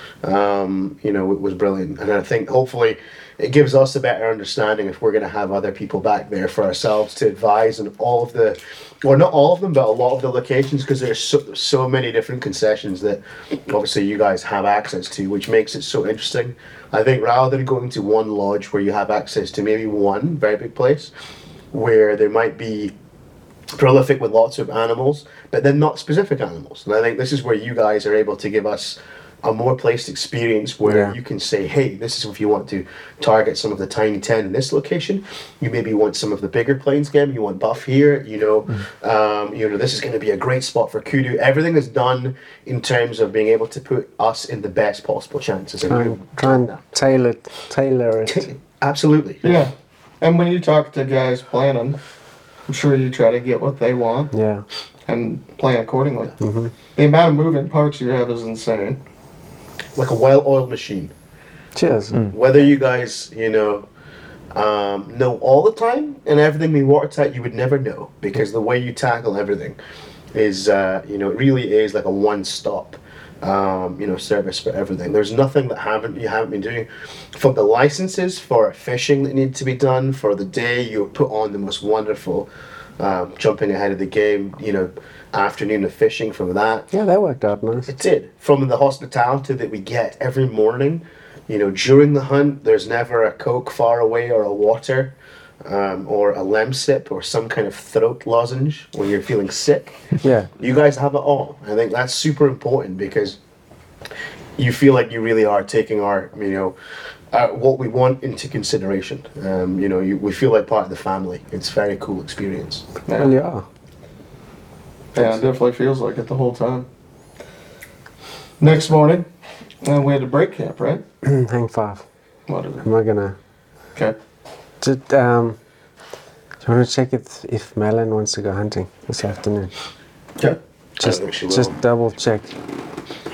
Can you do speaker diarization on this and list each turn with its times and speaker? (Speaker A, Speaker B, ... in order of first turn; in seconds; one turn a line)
Speaker A: 0.2-21.1
Speaker A: 21.7-22.9
Speaker A: 23.7-46.8
Speaker B: 30.8-31.2
Speaker B: 45.9-48.5
Speaker A: 48.2-49.5
Speaker C: 49.4-52.0
Speaker C: 52.7-54.3
Speaker B: 54.3-54.6
Speaker C: 55.1-56.4
Speaker B: 56.4-56.7
Speaker C: 56.9-59.0
Speaker A: 59.9-61.1
Speaker B: 61.7-62.2
Speaker A: 62.3-63.9
Speaker A: 64.5-69.8
Speaker A: 70.3-82.5
Speaker A: 83.0-86.9
Speaker B: 86.9-87.9
Speaker A: 87.9-100.0
Speaker B: 100.2-100.5
Speaker A: 100.6-103.4
Speaker A: 104.6-106.8
Speaker A: 107.3-112.9
Speaker C: 113.1-113.3
Speaker B: 113.1-113.6
Speaker C: 115.1-116.9
Speaker C: 118.6-119.2
Speaker C: 119.8-121.0
Speaker B: 121.2-122.0
Speaker C: 122.5-122.9
Speaker B: 122.8-123.4
Speaker B: 124.8-125.6
Speaker B: 126.6-129.7
Speaker A: 131.0-131.8
Speaker B: 131.0-132.5